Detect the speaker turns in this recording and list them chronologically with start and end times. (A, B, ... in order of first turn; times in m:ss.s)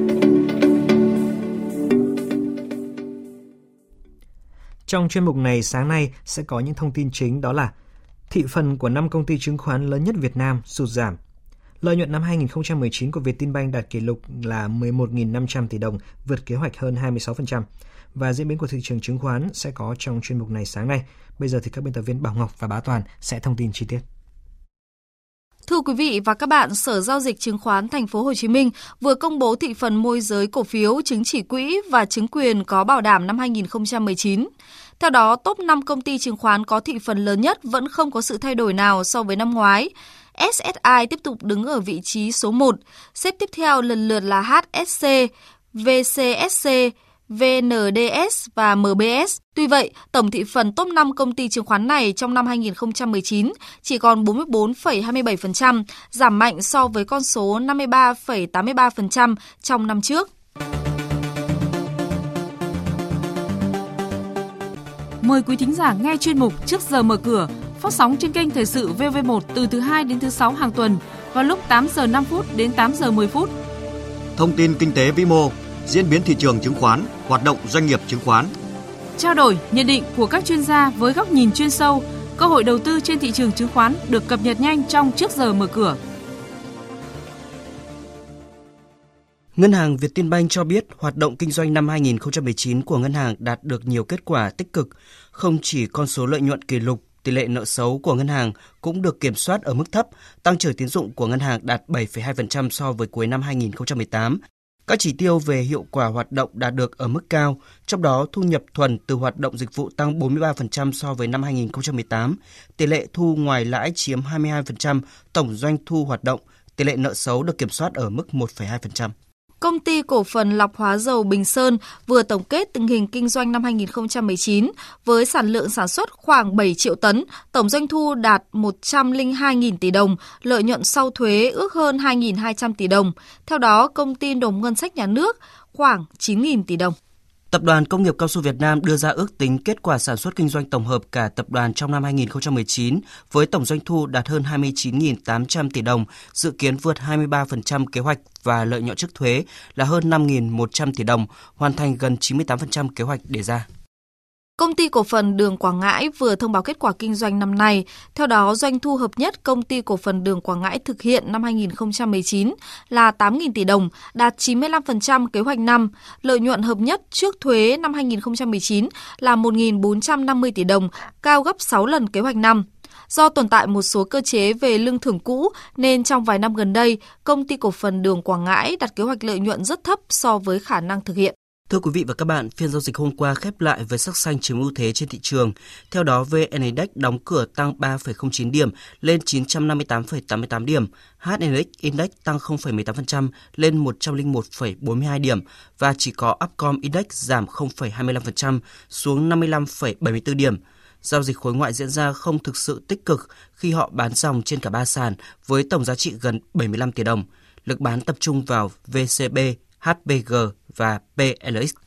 0:04.9-0:07.7 A
0:08.3-0:11.2 A
0:11.8-0:24.0 A
0:25.7-1:00.3 B
1:05.2-1:13.5 C
1:14.4-1:18.5 D
1:19.2-1:26.0 C
1:29.6-1:59.1 E
1:59.6-2:17.0 B
2:17.5-2:33.6 E
2:34.6-3:01.3 B
3:01.7-3:31.7 E